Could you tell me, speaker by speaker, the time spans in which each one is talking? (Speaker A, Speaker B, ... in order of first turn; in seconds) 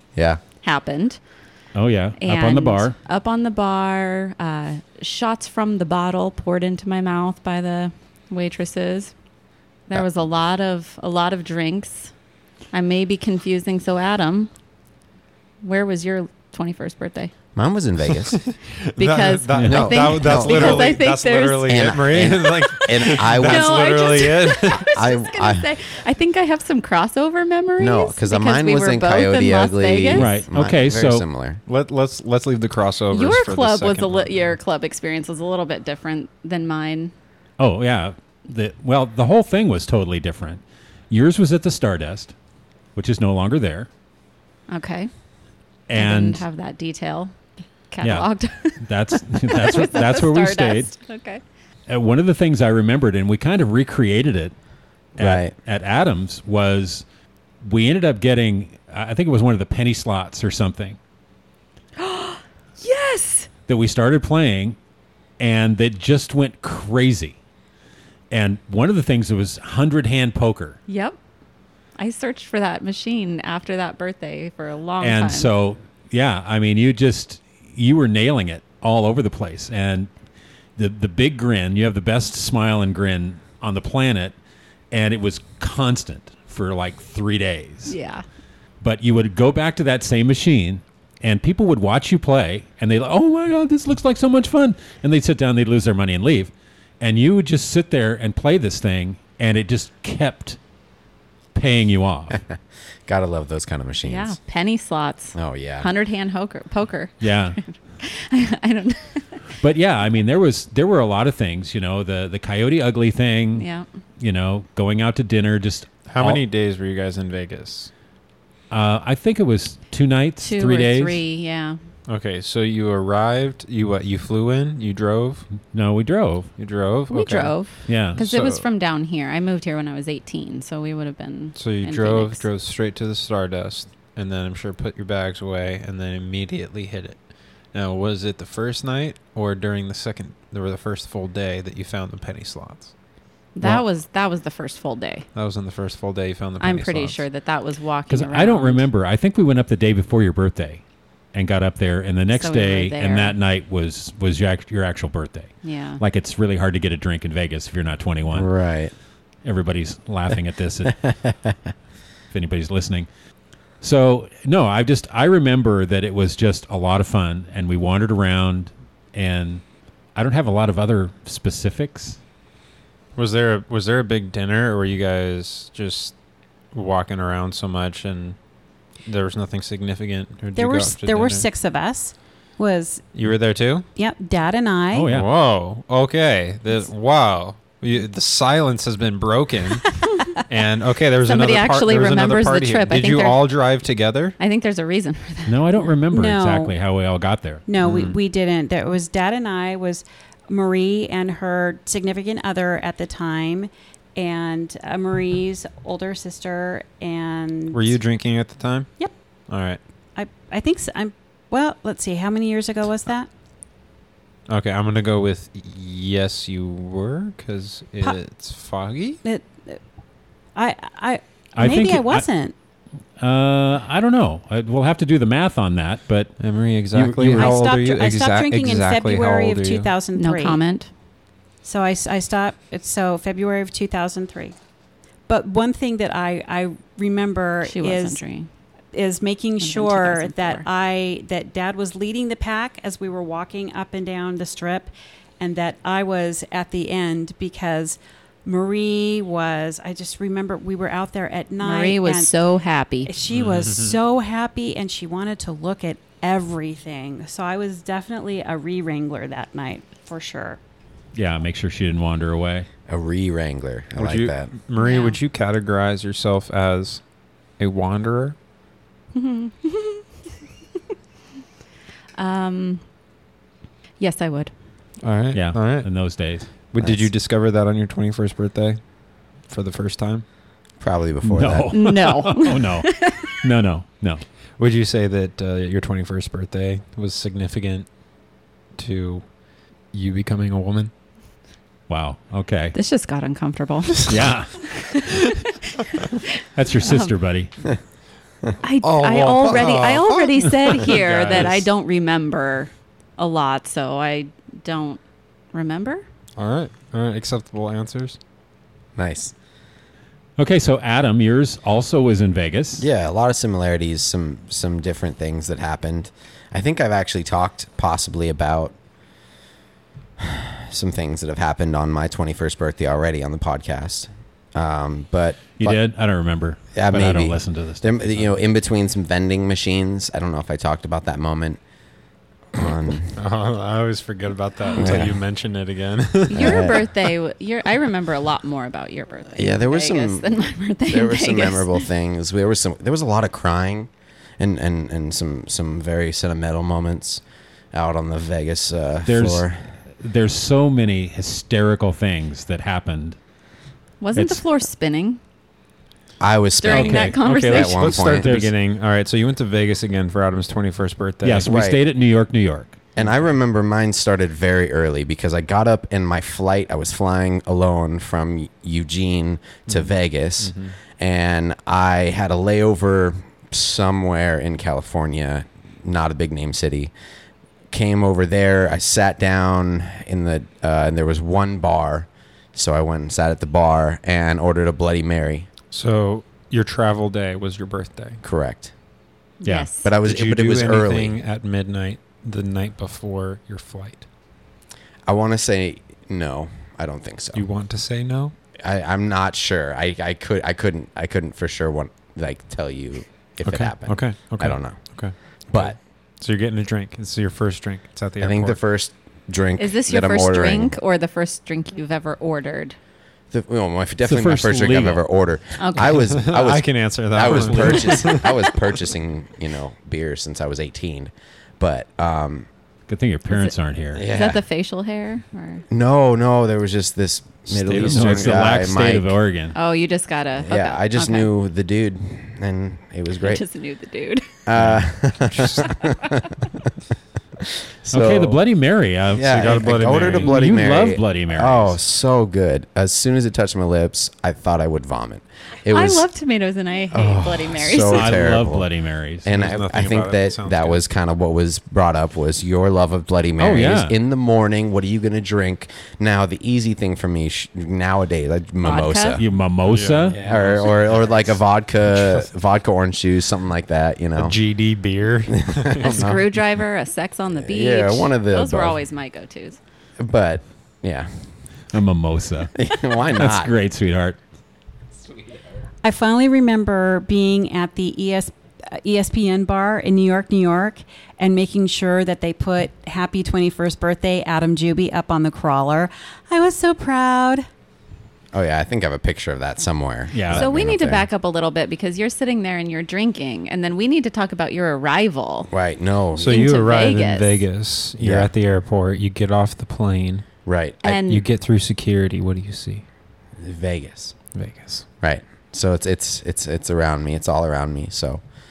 Speaker A: 0.1-0.4, 17.6-18.4, 19.7-21.0, 21.6-23.9, 24.9-25.7, 27.8-31.6, 55.2-55.5, 103.1-104.4, 105.3-105.9, 158.3-158.9, 161.1-161.5, 262.9-264.5, 276.8-277.1, 280.8-281.8, 309.0-309.3, 312.8-318.8, 320.2-325.8, 326.7-331.6, 332.5-333.1, 334.8-335.2, 336.4-336.8, 339.3-340.3, 340.9-347.2, 347.7-349.7, 356.2-358.4, 361.4-361.8, 363.0-376.9, 377.7-385.5, 388.2-388.7, 389.8-391.2, 395.1-397.5, 398.6-404.8, 405.5-405.8, 408.2-410.8, 413.3-422.5, 423.9-424.4, 425.7-429.1, 430.4-433.4, 434.5-436.3, 437.8-438.4, 439.1-446.1, 446.9-448.7, 449.2-459.2, 460.1-464.4, 465.5-466.2, 467.3-468.8, 470.0-471.3, 472.6-473.6, 488.3-491.1, 495.5-496.4, 498.0-498.3, 500.4-501.0, 503.4-504.1, 505.0-508.2
Speaker B: 0.6-1.2, 2.2-9.1, 9.9-12.1, 12.7-14.5, 15.6-17.3, 19.0-21.8, 22.7-30.4, 33.1-37.1, 44.7-45.1, 46.0-47.3, 47.9-51.4, 62.0-63.5, 70.9-71.2, 72.0-75.5, 87.9-88.2, 104.0-109.3, 113.5-113.9, 120.4-121.8, 127.1-132.5, 143.6-145.3, 146.6-148.8, 152.3-153.4, 155.6-156.0, 191.2-193.4, 194.4-195.6, 230.2-230.9, 237.6-238.5, 239.6-240.7, 251.6-253.1, 264.8-265.2, 269.1-270.1, 272.2-272.8, 274.0-274.5, 281.7-283.4, 292.7-294.1, 294.6-296.3, 296.8-297.1, 298.6-305.0, 305.5-306.1, 336.3-341.9, 354.0-355.2, 356.6-358.0, 389.4-389.9, 409.6-412.8, 415.6-416.0, 423.3-425.6, 429.5-431.3, 433.2-434.4, 445.7-448.2, 458.6-459.2, 465.8-469.6, 490.3-495.5, 496.3-497.4, 500.8-501.2
Speaker C: 1.7-3.0, 30.1-31.2, 37.6-42.3, 43.0-43.9, 45.9-46.4, 48.0-50.9, 51.9-54.5, 55.2-57.0, 57.6-61.0, 63.7-64.8, 65.4-67.4, 68.3-70.8, 75.0-80.1, 80.8-84.3, 84.9-88.0, 88.8-100.6, 101.5-102.4, 107.2-107.6, 109.6-113.7, 114.2-116.4, 118.7-121.2, 125.6-126.5, 127.9-128.2, 148.1-150.8, 151.3-158.5, 159.4-161.0, 162.3-163.1, 163.8-169.6, 170.2-172.2, 184.9-185.3, 195.5-197.7, 221.6-222.3, 223.2-226.4, 226.9-227.6, 261.1-262.7, 275.3-276.5, 281.2-284.2, 291.9-292.8, 294.1-294.7, 296.6-297.5, 310.4-312.9, 325.6-328.3, 349.1-349.5, 350.0-353.2, 354.1-354.4, 356.7-357.2, 358.1-358.5, 361.2-362.8, 389.4-389.7, 414.1-415.0, 417.3-417.8, 422.9-424.1, 427.6-429.6, 437.9-441.8, 447.9-449.3, 453.4-453.9, 459.2-460.2, 471.7-474.2, 490.1-490.5
Speaker D: 18.3-24.9, 31.7-34.4, 116.1-117.9, 122.1-125.5, 126.6-127.6, 128.2-128.6, 131.6-142.9, 145.3-147.2, 173.2-176.2, 176.7-178.4, 179.1-181.5, 183.1-183.9, 185.1-194.4, 197.8-198.2, 207.7-208.9, 209.5-209.8, 214.5-219.2, 226.4-229.9, 253.3-254.0, 264.0-267.0, 267.6-268.4, 275.0-275.9, 276.7-278.8, 279.5-280.2, 284.6-287.9, 288.8-289.2, 289.9-290.9, 298.8-301.7, 306.4-308.2, 333.1-336.8, 357.0-361.5, 369.7-370.8, 385.7-388.2, 390.0-394.1, 397.3-398.3, 403.4-408.6, 415.8-418.5, 427.5-428.5, 434.6-435.7, 439.2-440.5, 449.3-450.8, 459.6-462.3, 464.1-466.2, 496.2-500.2, 501.1-502.9, 504.3-504.9
Speaker E: 180.6-183.4, 183.9-185.1, 196.1-196.7, 197.7-207.9, 210.2-213.3, 219.2-219.8, 220.6-222.5, 227.3-230.6, 231.6-234.6, 235.3-238.2, 238.9-252.3, 253.1-260.6, 475.8-487.5